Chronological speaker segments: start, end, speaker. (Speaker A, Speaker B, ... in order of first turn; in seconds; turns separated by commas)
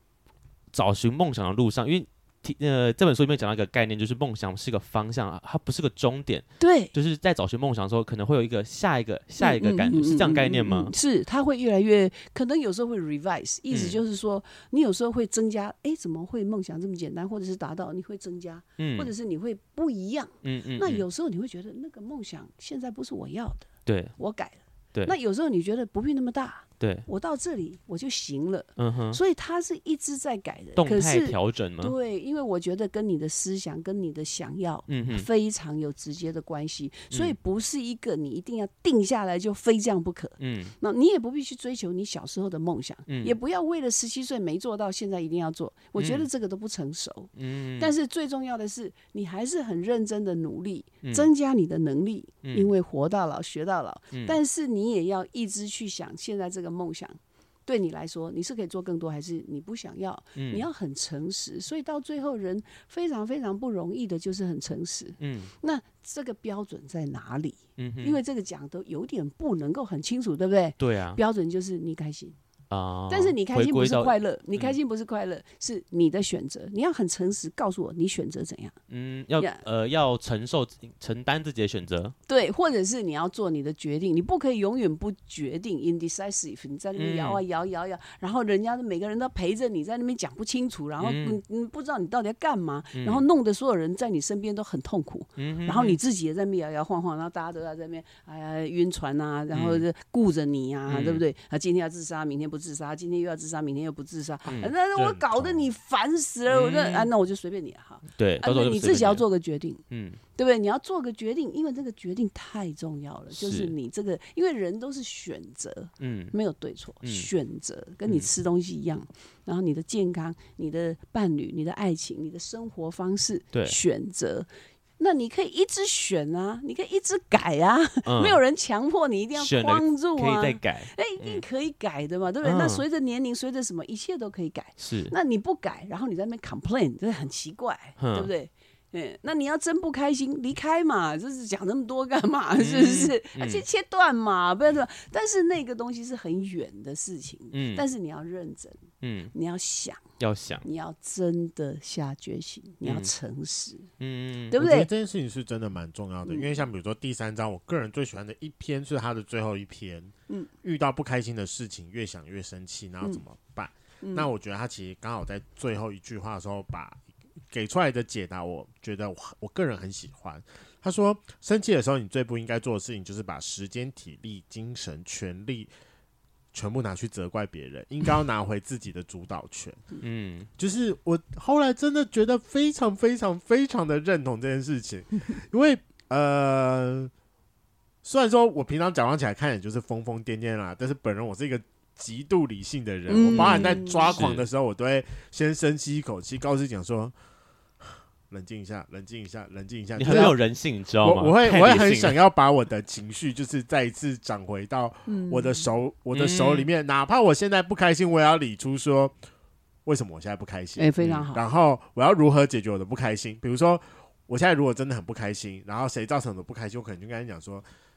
Speaker A: 0.7-10.9, Speaker B: 6.6-6.9, Speaker B: 9.4-72.4, Speaker A: 13.7-14.0, Speaker A: 18.8-19.1, Speaker A: 20.4-21.1, Speaker A: 23.9-24.1, Speaker A: 26.8-27.1, Speaker A: 28.8-29.2, Speaker A: 30.8-31.9, Speaker A: 34.9-35.3, Speaker A: 40.4-40.8, Speaker A: 43.1-43.4, Speaker A: 46.0-46.3, Speaker A: 47.4-47.9, Speaker A: 51.0-51.3, Speaker A: 54.1-54.4, Speaker A: 60.4-60.7, Speaker A: 65.2-65.5, Speaker A: 67.8-68.2, Speaker A: 70.8-71.2, Speaker A: 72.7-74.8, Speaker B: 73.1-78.8, Speaker A: 78.9-82.2, Speaker B: 82.3-109.8, Speaker A: 87.0-87.4, Speaker A: 91.0-91.4, Speaker A: 92.9-93.2, Speaker A: 95.4-96.0, Speaker A: 99.5-99.9, Speaker A: 100.9-101.2, Speaker A: 104.5-104.7, Speaker C: 105.0-105.7, Speaker A: 106.5-107.1, Speaker A: 108.1-109.2, Speaker A: 109.9-110.2, Speaker B: 110.4-124.5, Speaker A: 113.3-113.7, Speaker A: 116.0-116.3, Speaker A: 117.0-117.3, Speaker A: 118.0-118.3, Speaker B: 125.0-148.8, Speaker A: 128.1-128.4, Speaker A: 129.3-131.4, Speaker A: 132.4-132.8, Speaker A: 134.8-135.1, Speaker A: 138.0-138.3, Speaker A: 142.6-143.6, Speaker A: 147.5-147.8, Speaker A: 149.0-149.3, Speaker B: 149.3-150.0, Speaker A: 150.2-150.7, Speaker B: 150.6-153.9, Speaker A: 152.8-153.1, Speaker A: 154.0-154.6, Speaker B: 154.5-154.9, Speaker C: 154.6-160.1, Speaker C: 160.6-175.7, Speaker B: 164.0-164.3, Speaker C: 176.5-179.8, Speaker A: 180.0-180.5, Speaker C: 180.6-187.1, Speaker C: 188.0-197.1, Speaker B: 193.1-194.2, Speaker A: 193.2-194.5, Speaker C: 197.8-200.4, Speaker A: 200.0-202.2, Speaker B: 200.1-200.4, Speaker C: 201.0-209.2, Speaker B: 205.1-205.7, Speaker A: 206.1-206.7, Speaker C: 209.8-217.7, Speaker B: 210.8-211.4